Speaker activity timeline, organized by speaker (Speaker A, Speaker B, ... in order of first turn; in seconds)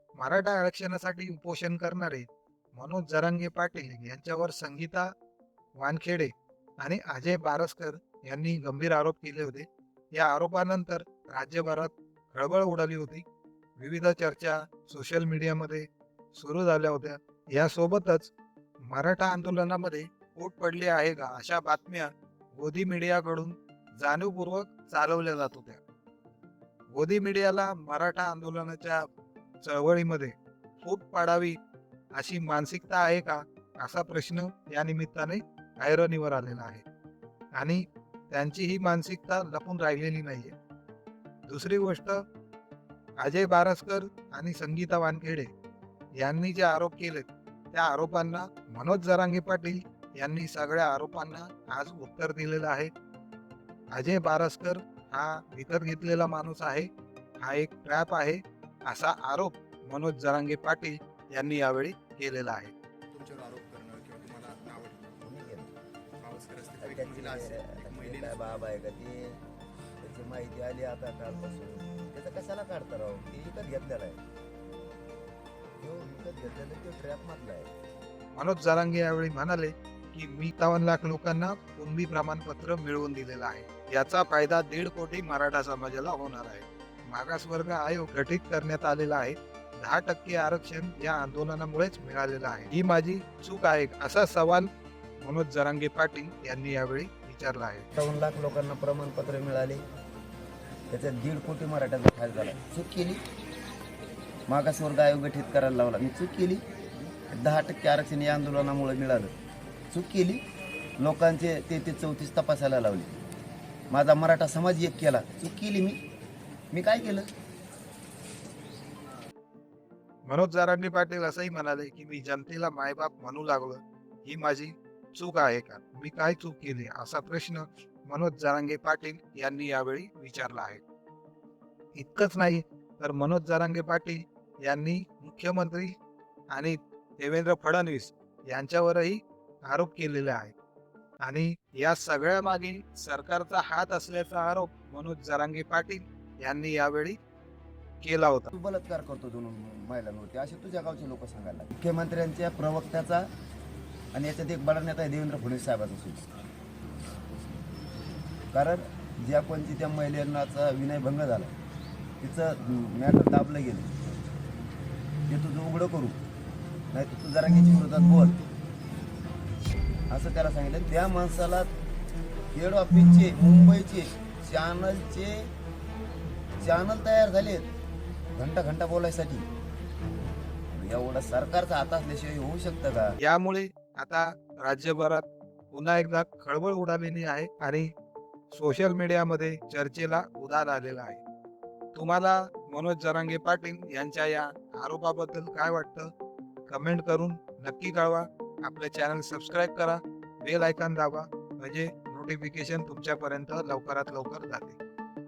Speaker A: 0.1-5.0, 5.8-13.2, 13.8-18.3, 18.9-25.8, 26.9-29.0, 29.6-31.6, 32.1-36.8, 37.5-40.5, 41.5-42.2, 43.2-45.5, 46.2-52.9, 53.9-56.9, 57.4-62.7, 78.3-94.7, 95.2-97.8, 120.2-130.8, 131.9-135.9, 136.5-140.5, 141.2-147.2, 148.0-148.5, 183.2-187.9, 188.5-191.2, 191.9-196.1, 196.7-204.8
Speaker B: 63.1-65.4, 66.2-68.6
Speaker C: 65.2-65.7, 66.8-69.4, 70.0-74.2, 75.8-77.7, 98.0-99.8, 100.9-103.2, 104.5-106.7, 107.3-109.3, 109.9-110.4, 111.0-113.1, 113.9-116.0, 116.7-117.3, 148.5-153.3, 154.1-156.2, 158.5-161.5, 162.2-163.9, 165.3-166.2, 166.9-168.4, 170.1-171.7, 172.5-175.5, 176.6-177.7, 178.3-179.5, 180.7-183.1